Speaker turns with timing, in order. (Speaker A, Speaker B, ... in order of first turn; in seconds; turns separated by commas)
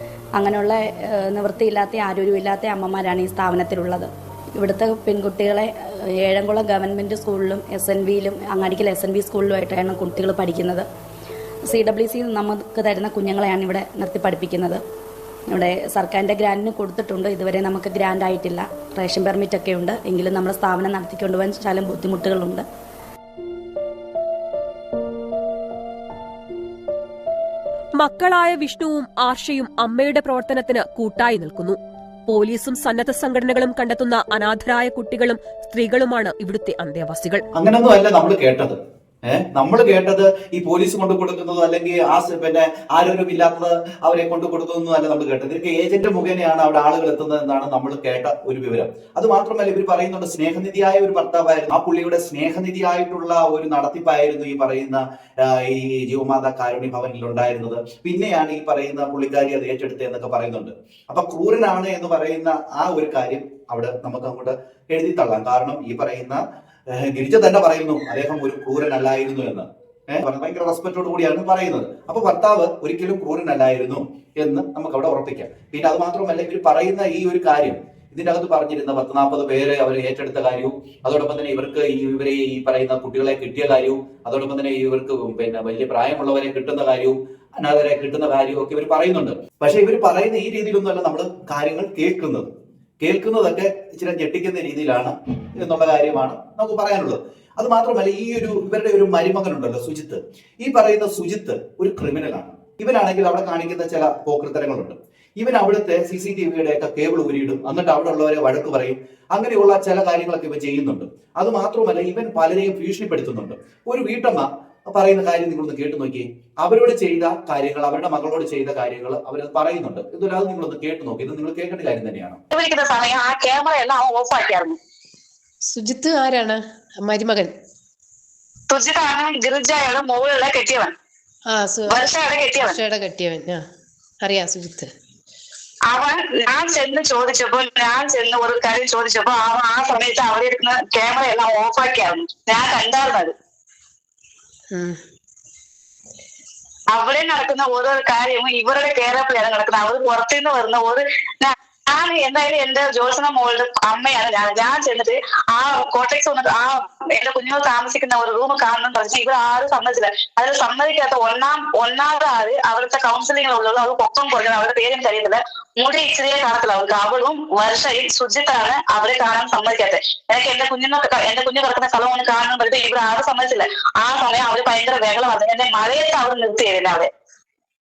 Speaker A: 0.4-10.8, Speaker A: 11.7-14.8, Speaker A: 15.5-22.6, Speaker B: 28.0-37.4, Speaker C: 37.6-38.8, Speaker C: 39.3-92.5, Speaker C: 93.0-122.4, Speaker D: 122.5-124.8, Speaker E: 125.7-127.5, Speaker D: 128.7-130.9, Speaker E: 131.5-132.0, Speaker D: 131.9-132.8, Speaker E: 132.6-133.6, Speaker E: 134.2-134.9, Speaker D: 135.9-143.3, Speaker E: 144.7-145.0, Speaker D: 146.9-177.1